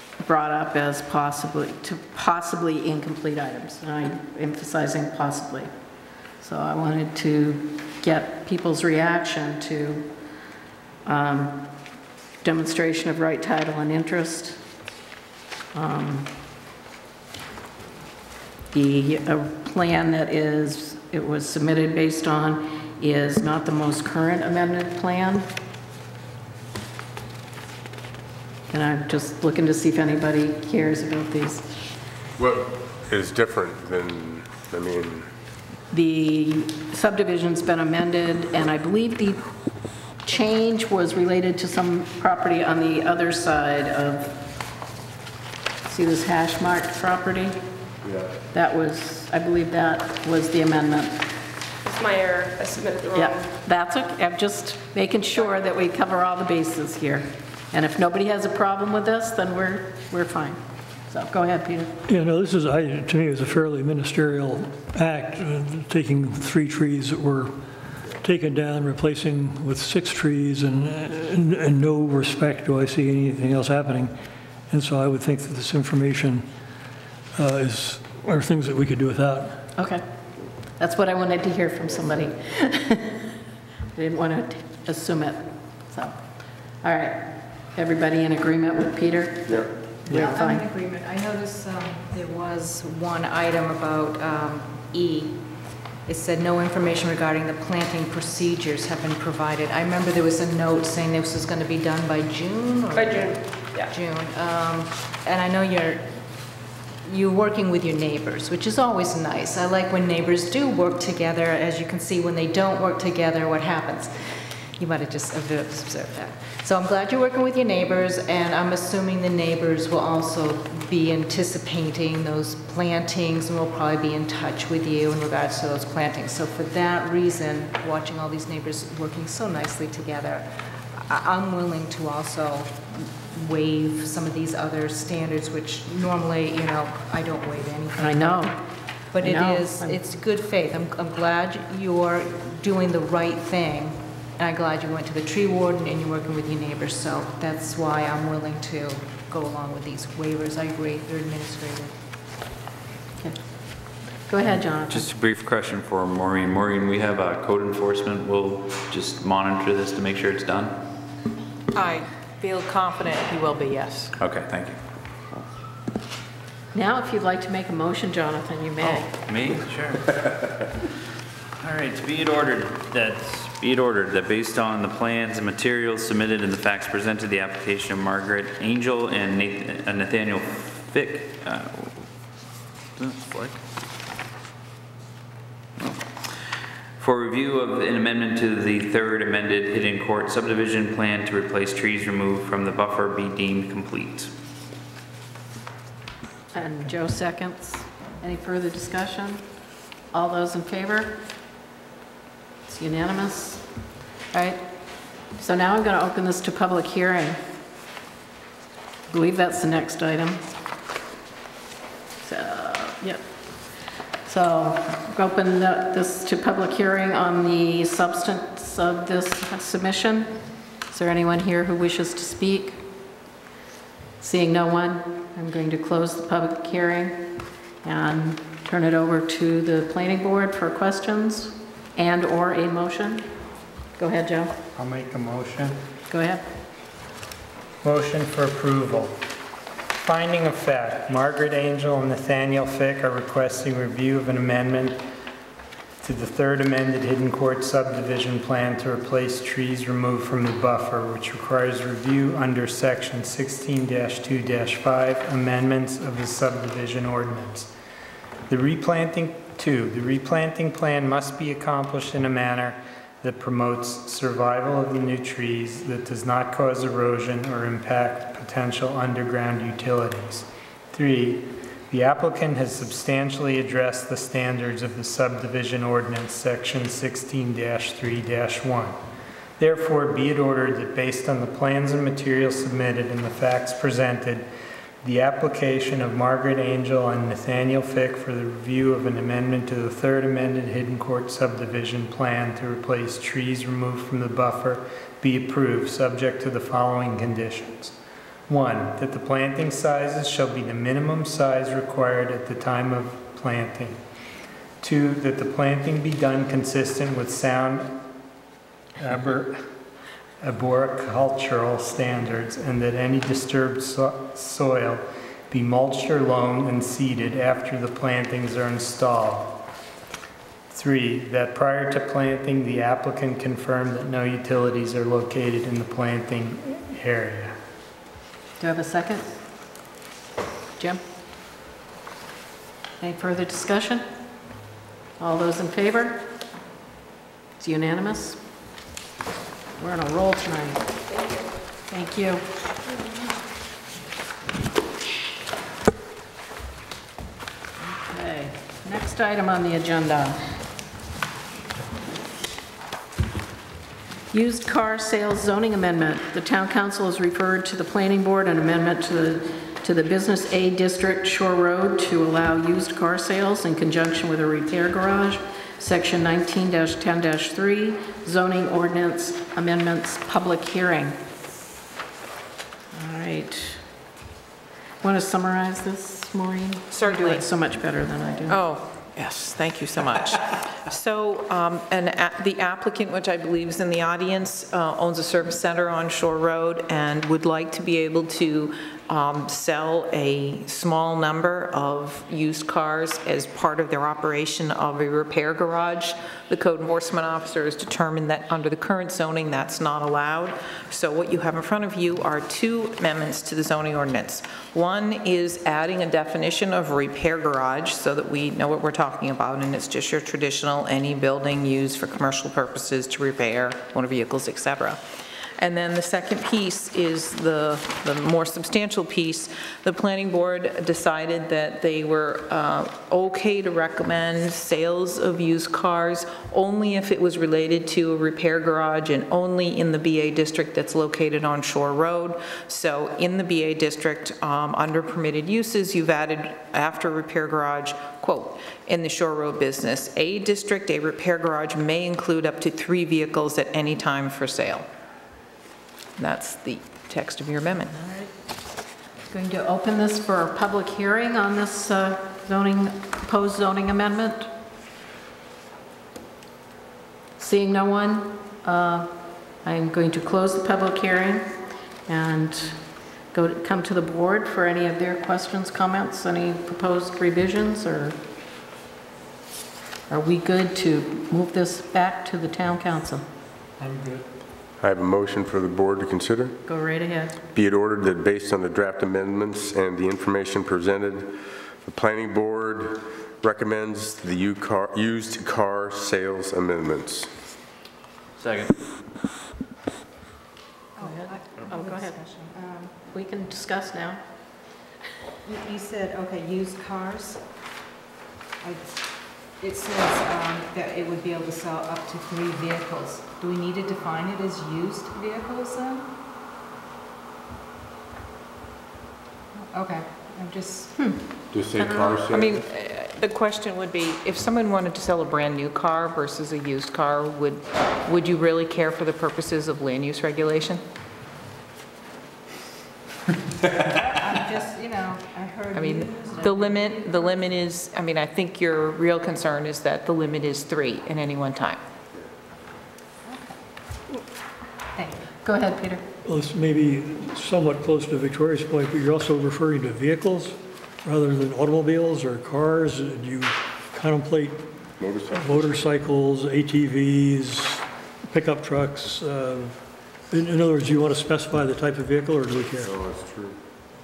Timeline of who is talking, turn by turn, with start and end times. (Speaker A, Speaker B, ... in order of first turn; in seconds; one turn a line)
Speaker A: 0.2-5.7
Speaker A: 6.4-10.1
Speaker A: 11.0-11.7
Speaker A: 12.4-14.6
Speaker A: 15.7-16.3
Speaker A: 18.7-25.5
Speaker A: 28.7-31.6
Speaker B: 32.4-35.3
Speaker A: 35.9-39.4
Speaker A: 40.2-44.4
Speaker A: 45.8-47.6
Speaker B: 48.0-48.3
Speaker A: 48.5-51.2
Speaker C: 51.8-53.5
Speaker A: 53.1-62.0
Speaker C: 55.4-55.7
Speaker D: 62.1-76.5
Speaker D: 77.3-79.7
Speaker A: 79.8-80.0
Speaker A: 80.6-83.3
Speaker A: 83.9-90.6
Speaker E: 90.1-106.5
Speaker C: 102.9-103.9
Speaker E: 107.0-138.5
Speaker A: 138.0-138.6
Speaker E: 139.1-151.9
Speaker A: 139.2-140.0
Speaker A: 154.2-155.0
Speaker F: 154.5-160.8
Speaker G: 161.7-164.1
Speaker F: 164.2-164.8
Speaker A: 166.7-169.1
Speaker F: 168.8-170.4
Speaker F: 171.6-182.1
Speaker F: 182.9-183.6
Speaker F: 185.8-194.3
Speaker A: 196.5-199.6
Speaker A: 200.1-201.2
Speaker A: 202.7-203.7
Speaker A: 204.3-207.4
Speaker A: 209.1-210.4
Speaker A: 212.2-220.3
Speaker A: 220.9-222.8
Speaker A: 224.2-233.2
Speaker A: 234.0-234.6
Speaker H: 234.7-235.8
Speaker A: 236.1-236.4
Speaker H: 237.8-239.2
Speaker H: 240.0-245.0
Speaker H: 246.0-257.7
Speaker H: 258.5-278.9
Speaker H: 279.6-284.5
Speaker H: 285.0-297.9
Speaker H: 298.5-304.0
Speaker H: 304.8-308.0
Speaker H: 309.0-309.6
Speaker H: 310.4-319.6
Speaker H: 320.7-327.6
Speaker A: 328.6-329.4
Speaker A: 333.0-334.1
Speaker A: 335.2-336.3
Speaker A: 337.6-338.4
Speaker A: 339.8-340.8
Speaker A: 341.9-342.4
Speaker A: 347.8-350.4
Speaker A: 354.3-371.2
Speaker A: 372.9-373.8
Speaker A: 375.0-378.6
Speaker G: 376.9-377.4
Speaker G: 378.5-415.0
Speaker G: 415.6-444.9
Speaker G: 446.2-447.9
Speaker A: 447.9-448.3
Speaker A: 449.2-454.5
Speaker A: 457.4-461.5
Speaker A: 462.1-468.2
Speaker A: 470.1-473.2
Speaker H: 473.8-474.2
Speaker B: 474.8-476.6
Speaker A: 476.7-477.4
Speaker B: 477.5-487.3
Speaker F: 488.4-488.9
Speaker E: 491.0-493.0
Speaker A: 491.0-492.2
Speaker A: 493.0-494.2
Speaker E: 495.4-497.5
Speaker E: 498.6-506.1
Speaker E: 509.6-511.0
Speaker A: 510.9-512.2
Speaker B: 511.5-512.6
Speaker G: 512.3-520.8
Speaker E: 523.8-527.4
Speaker G: 525.7-531.8
Speaker E: 533.2-533.6
Speaker E: 534.9-535.2
Speaker A: 535.4-536.0
Speaker D: 536.2-552.9
Speaker B: 545.0-545.7
Speaker B: 552.8-553.6